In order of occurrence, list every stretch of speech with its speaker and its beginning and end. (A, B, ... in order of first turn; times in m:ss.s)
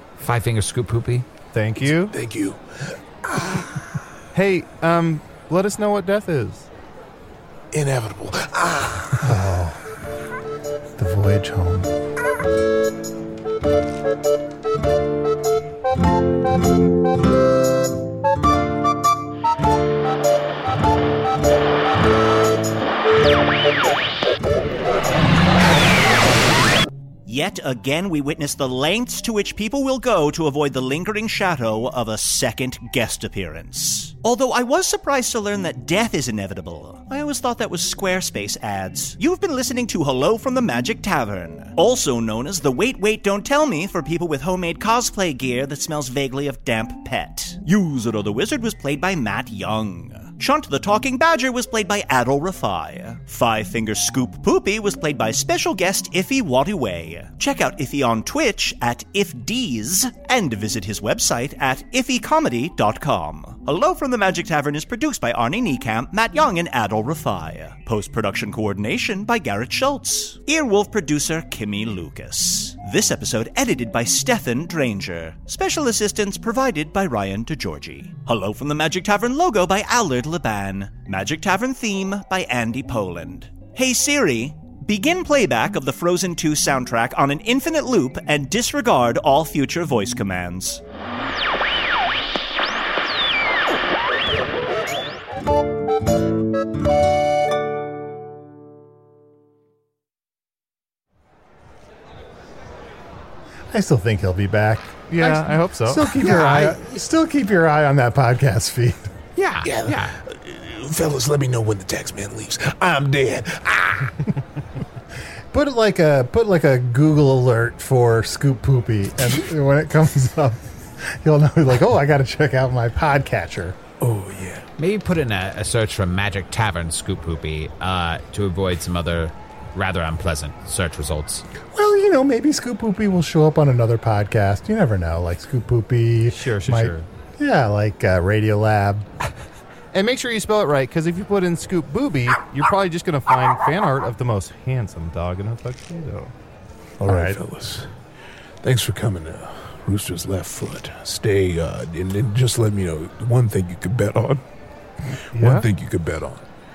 0:00.2-0:01.3 A
0:01.5-0:02.2 B
0:02.0-0:03.7 C
0:04.3-0:06.7 B
0:07.7-0:09.2 C
0:09.2-0:09.8 D
0:11.0-0:11.9 D
0:27.3-1:30.8 E
1:43.7-1:49.1 D
1:45.1-1:46.7 B
1:49.4-1:50.2 A
1:49.6-1:54.3 C
1:55.5-2:03.8 D
2:04.0-2:04.7 C
2:04.8-2:11.4 A
2:11.7-2:19.1 D
2:16.3-2:17.1 B
2:19.9-2:26.3 B
2:27.0-2:27.9 C
2:27.0-2:27.4 D
2:28.6-2:34.4 C
2:35.3-2:36.4 C
2:35.3-2:35.7 B